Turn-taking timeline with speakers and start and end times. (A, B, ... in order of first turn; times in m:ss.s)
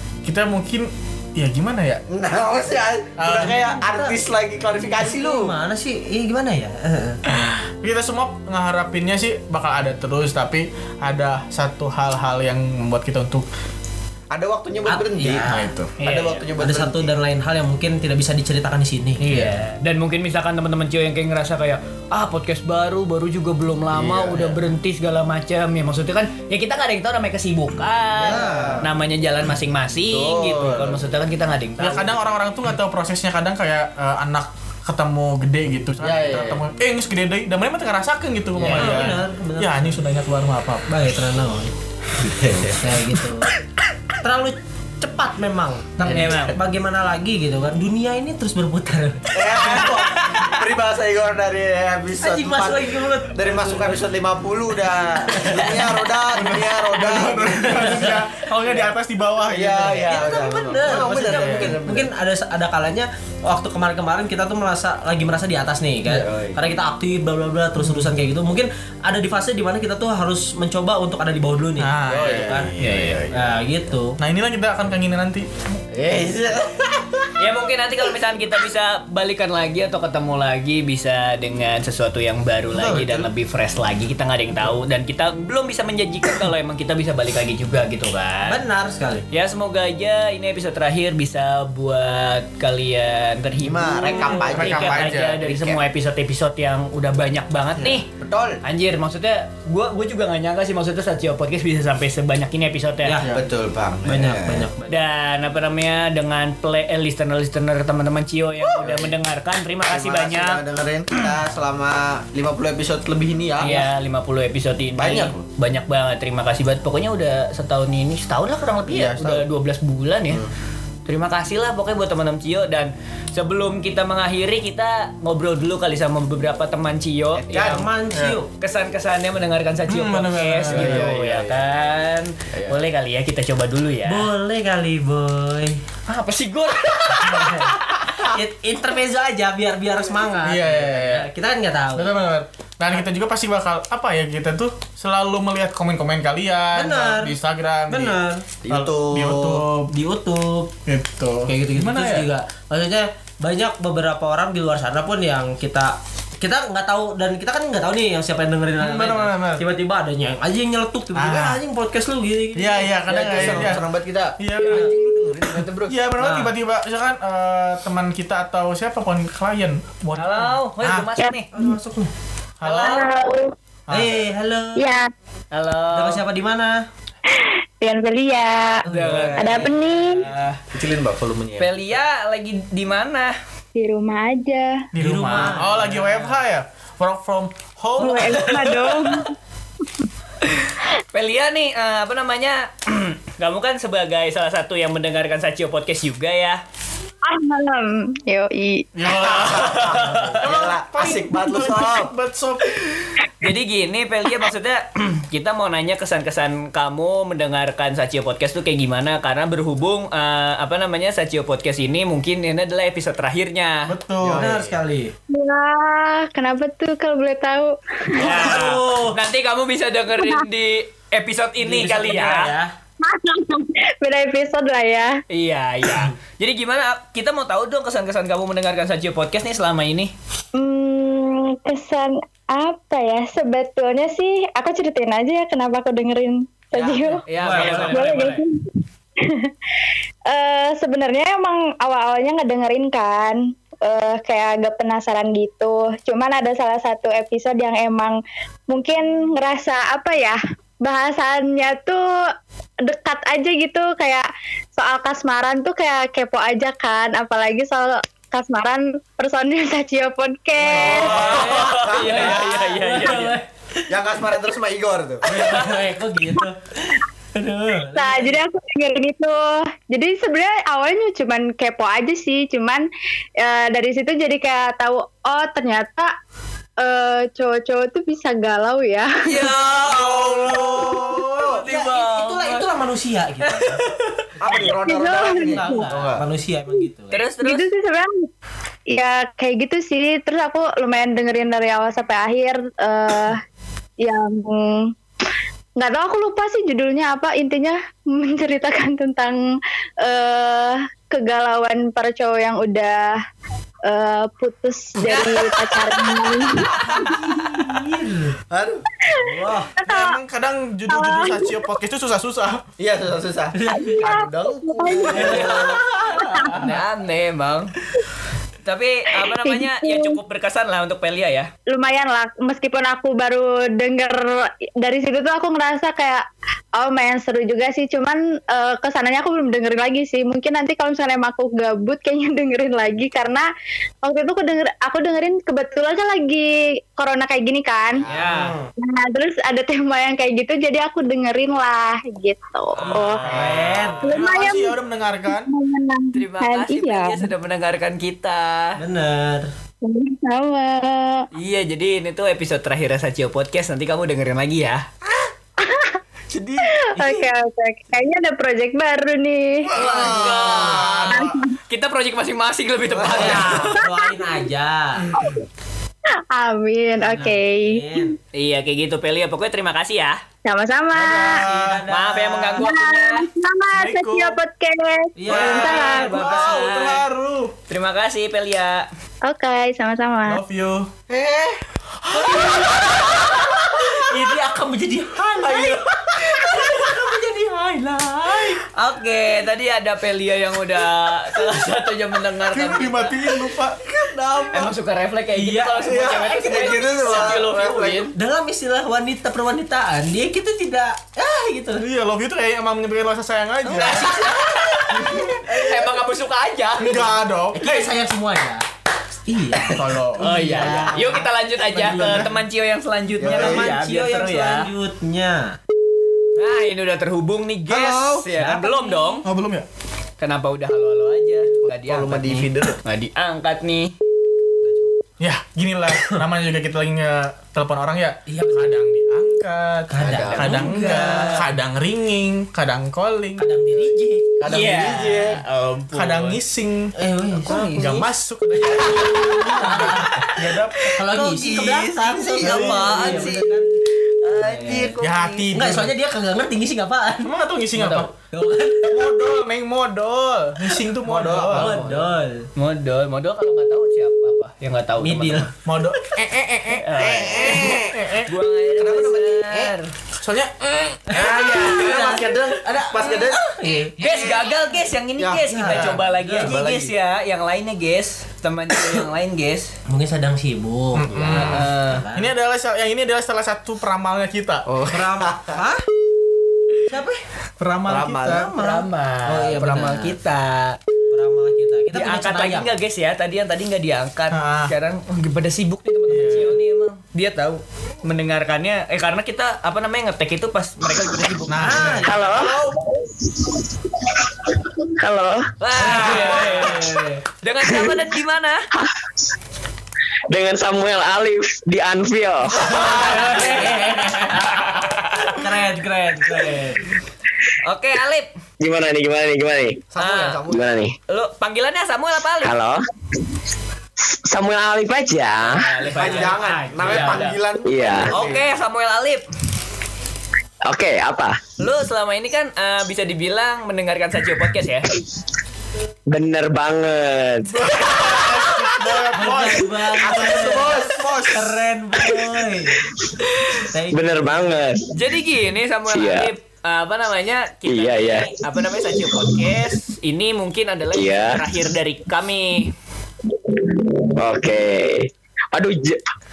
0:00.2-0:02.0 A
0:02.1-0:05.5 B
0:03.2-0:03.8 A
0:03.8-0:04.2 C
0:05.0-0:07.2 C
0:07.3-0:13.4 A
0:14.3-0:17.1 B
0:14.9-0:15.7 C
0:15.4-0:15.9 A
0:16.0-0:16.4 D
0:16.6-0:19.2 C
0:19.2-0:32.1 D
0:23.9-0:24.6 B
0:28.2-0:28.8 B
0:28.3-0:28.8 C
0:30.1-0:31.0 B
0:31.8-0:40.9 A
0:36.0-0:36.6 B
0:38.6-0:40.0 C
0:40.9-0:41.7 C
0:42.2-0:43.0 B
0:42.7-0:43.5 C
0:44.2-0:49.8 C
0:46.0-0:46.6 D
0:49.3-0:58.0 B
0:49.8-0:50.6 D
0:52.2-0:54.0 C
0:55.3-0:55.9 C
0:56.3-1:00.2 A
0:57.8-0:58.2 C
0:59.5-1:02.1 B
1:00.1-1:12.7 C
1:00.8-1:01.8 A
1:06.0-1:06.8 B
1:07.8-1:08.1 A
1:11.8-1:13.2 A
1:12.1-1:13.5 B
1:12.8-1:13.2 D
1:13.3-1:14.2 C
1:14.2-1:15.4 A
1:15.9-1:17.2 B
1:17.4-1:28.6 D
1:22.7-1:23.2 A
1:28.4-1:29.2 C
1:29.3-1:38.1 D
1:33.6-1:35.8 B
1:34.2-1:35.4 A
1:38.1-1:38.6 B
1:38.6-1:43.2 D
1:43.0-1:43.3 C
1:43.3-1:44.7 B
1:44.0-1:44.9 C
1:44.9-1:50.6 D
1:48.7-1:49.1 B
1:49.8-1:53.9 B
1:53.6-2:00.4 D
1:55.0-1:55.4 B
1:58.9-1:59.4 B
2:01.0-2:07.8 D
2:07.3-2:07.9 B
2:07.5-2:08.5 C
2:08.1-2:08.4 A
2:08.6-2:14.3 D
2:09.9-2:11.1 A
2:10.7-2:11.7 B
2:12.5-2:12.8 B
2:14.0-2:15.8 C
2:16.1-2:18.0 D
2:17.2-2:22.2 C
2:20.4-2:21.3 A
2:21.9-2:29.9 A
2:26.7-2:27.4 C
2:27.9-2:28.5 C
2:28.6-2:29.6 B
2:29.9-2:30.7 C
2:30.8-2:32.3 A
2:31.5-2:43.8 C
2:38.8-2:39.6 A
2:41.1-2:41.6 A
2:42.5-2:43.8 A
2:43.1-2:45.9 B
2:44.4-2:44.9 A
2:45.9-2:51.1 A
2:46.2-2:46.5 C
2:50.1-2:51.5 D
2:51.2-2:51.7 E
2:51.5-2:52.1 C
2:52.6-2:53.1 A
2:52.6-2:53.5 E
2:53.9-2:54.3 A
2:53.9-2:54.9 C
2:54.8-2:55.1 E
2:55.5-2:56.2 D
2:55.9-2:56.8 C
2:57.3-2:58.8 E
2:58.8-2:59.7 C
2:58.9-3:00.6 D
2:59.4-3:00.2 E
3:00.7-3:01.7 B
3:01.6-3:03.3 D
3:03.7-3:04.9 E
3:04.9-3:08.8 A
3:05.0-3:06.4 C
3:08.0-3:09.3 E
3:08.0-3:09.2 D
3:10.4-3:16.6 D
3:17.2-3:18.9 E
3:18.9-3:22.8 A
3:19.1-3:22.1 B
3:19.4-3:20.3 D
3:23.4-3:33.9 D
3:33.9-3:34.6 A
3:34.2-3:34.7 B
3:34.3-3:35.1 C
3:35.3-3:38.6 E
3:38.2-3:42.5 D
3:38.2-3:39.2 C
3:40.2-3:40.4 E
3:41.6-3:42.7 C
3:43.0-3:45.2 E
3:45.3-3:50.1 D
3:50.6-3:59.5 E
3:57.3-3:58.4 D
3:57.4-3:58.0 C
4:00.3-4:08.2 E
4:08.7-4:12.0 E
4:12.8-4:21.2 E
4:20.6-4:22.8 B
4:20.8-4:23.4 D
4:21.1-4:23.4 C
4:23.9-4:25.4 B
4:25.2-4:28.4 C
4:27.9-4:32.8 E
4:33.4-4:36.1 E
4:36.8-4:39.5 E
4:39.2-4:42.7 D
4:39.8-4:41.6 B
4:41.7-4:43.8 C
4:43.4-4:43.8 D
4:44.4-4:46.2 B
4:44.5-4:47.2 C
4:44.8-4:45.8 E
4:47.1-4:47.6 D
4:47.4-4:48.3 E
4:48.9-4:53.4 E
4:54.0-4:54.9 E
4:55.8-4:59.4 E
5:00.0-5:03.2 E
5:03.9-5:07.1 E
5:05.0-5:05.9 D
5:06.8-5:07.1 D
5:06.9-5:08.4 C
5:08.5-5:08.9 B
5:09.0-5:10.2 E
5:09.1-5:09.7 C
5:09.8-5:12.6 A
5:10.9-5:11.6 E
5:12.8-5:15.8 B
5:13.5-5:14.1 C
5:13.7-5:16.7 E
5:15.1-5:16.6 C
5:15.2-5:15.8 D
5:16.5-5:17.7 D
5:18.6-5:21.5 D
5:19.2-5:20.2 E
5:21.7-5:26.2 E
5:26.8-5:33.4 E
5:34.0-5:38.0 E
5:37.9-5:38.3 B
5:38.1-5:38.5 D
5:38.3-5:38.7 C
5:38.8-5:43.4 E
5:42.7-5:43.4 D
5:42.9-5:45.5 A
5:43.2-5:44.1 C
5:44.0-5:47.3 E
5:46.1-5:48.8 D
5:48.8-5:49.5 C
5:49.8-5:51.3 E
5:51.3-5:54.8 D
5:55.6-5:56.0 E
5:56.7-5:59.7 E
5:56.9-5:57.3 C
5:59.7-6:01.2 A
5:59.8-6:00.9 C
5:59.8-6:03.7 D
6:01.1-6:01.5 E
6:02.9-6:03.7 B
6:03.1-6:05.1 C
6:03.8-6:04.4 E
6:06.3-6:08.1 E
6:07.0-6:08.1 C
6:08.3-6:10.2 D
6:10.4-6:11.4 E
6:10.9-6:11.8 A
6:11.0-6:12.6 C
6:11.9-6:13.2 D
6:12.6-6:16.2 E
6:13.7-6:14.4 A
6:15.2-6:16.6 C
6:15.3-6:17.5 A
6:15.4-6:17.0 D
6:17.7-6:18.9 D
6:19.2-6:20.4 E
6:20.2-6:20.9 A
6:21.1-6:21.6 B
6:22.1-6:23.1 C
6:22.2-6:22.7 A
6:23.9-6:28.6 C
6:25.4-6:25.8 B
6:28.7-6:33.2 D
6:32.5-6:33.8 A
6:33.8-6:34.7 B
6:34.5-6:38.1 D
6:35.3-6:35.9 C
6:35.8-6:38.1 B
6:37.1-6:37.3 C
6:38.1-6:41.8 C
6:41.8-6:44.2 A
6:43.7-6:47.2 D
6:43.7-6:45.0 C
6:44.9-6:45.2 A
6:46.8-6:47.9 A
6:47.5-6:48.6 C
6:49.3-6:52.3 C
6:49.7-6:50.4 A
6:50.2-6:54.7 D
6:51.8-6:52.3 A
6:53.2-6:53.7 B
6:53.2-6:55.6 C
6:56.4-6:59.2 D
6:57.7-6:58.3 B
6:58.3-6:58.9 C
6:59.2-6:59.6 A
7:00.2-7:03.9 D
7:01.6-7:02.8 B
7:04.6-7:04.9 B
7:05.2-7:13.5 A
7:08.3-7:08.8 C
7:09.9-7:11.4 C
7:10.1-7:10.3 B
7:10.1-7:11.4 D
7:13.4-7:14.2 C
7:14.4-7:15.4 B
7:14.4-7:16.4 D
7:15.9-7:16.9 A
7:17.0-7:17.9 C
7:17.4-7:18.1 D
7:17.5-7:21.0 A
7:18.9-7:20.3 D
7:19.5-7:20.3 C
7:20.8-7:23.6 D
7:20.9-7:23.7 C
7:22.4-7:23.3 B
7:22.4-7:23.1 A
7:24.2-7:25.4 D
7:24.3-7:25.0 C
7:25.0-7:25.9 A
7:25.5-7:27.3 C
7:27.2-7:28.1 A
7:27.8-7:28.1 D
7:28.1-7:29.2 C
7:28.9-7:31.8 A
7:31.0-7:32.1 B
7:31.5-7:32.5 C
7:32.6-7:35.5 D
7:35.0-7:35.5 C
7:35.6-7:36.0 A
7:36.2-7:36.7 C
7:36.7-7:39.9 D
7:36.9-7:38.0 B
7:37.9-7:38.3 A
7:38.7-7:39.7 B
7:40.2-7:41.2 A
7:41.1-7:44.0 C
7:41.1-7:43.4 B
7:44.0-7:49.7 D
7:44.0-7:44.3 B
7:45.2-7:45.8 B
7:45.5-7:46.6 C
7:45.7-7:45.9 A
7:46.4-7:46.9 B
7:49.9-7:52.3 C
7:50.9-7:54.6 A
7:51.3-7:52.0 D
7:54.7-7:55.6 B
7:54.9-7:55.8 C
7:56.9-7:57.2 C
7:57.6-7:58.5 A
7:57.9-7:58.5 B
7:58.5-8:00.2 C
7:58.6-8:00.8 D
8:01.1-8:02.7 C
8:01.9-8:11.9 D
8:04.3-8:04.7 A
8:06.1-8:06.6 A
8:11.5-8:12.5 A
8:11.6-8:12.5 C
8:12.0-8:15.5 F
8:15.6-8:16.9 D
8:15.8-8:17.2 C
8:17.4-8:18.6 D
8:17.6-8:18.0 F
8:20.3-8:22.8 F
8:22.6-8:25.4 D
8:22.6-8:26.8 C
8:27.6-8:28.3 D
8:28.6-8:29.8 F
8:29.9-8:30.8 B
8:30.0-8:30.4 D
8:30.5-8:30.9 F
8:31.1-8:32.5 D
8:32.4-8:32.8 F
8:34.0-8:35.7 F
8:35.4-8:37.4 D
8:35.9-8:38.4 B
8:36.1-8:37.2 C
8:37.6-8:38.1 F
8:38.1-8:39.2 D
8:40.6-8:41.4 F
8:41.6-8:44.9 D
8:46.1-8:47.7 F
8:47.5-8:51.4 A
8:49.1-8:52.9 C
8:50.0-8:51.4 B
8:53.7-8:54.6 C
8:53.9-8:55.0 F
8:54.9-9:02.7 D
8:55.9-8:56.3 F
8:57.6-8:59.5 F
9:00.9-9:01.6 F
9:03.5-9:06.0 F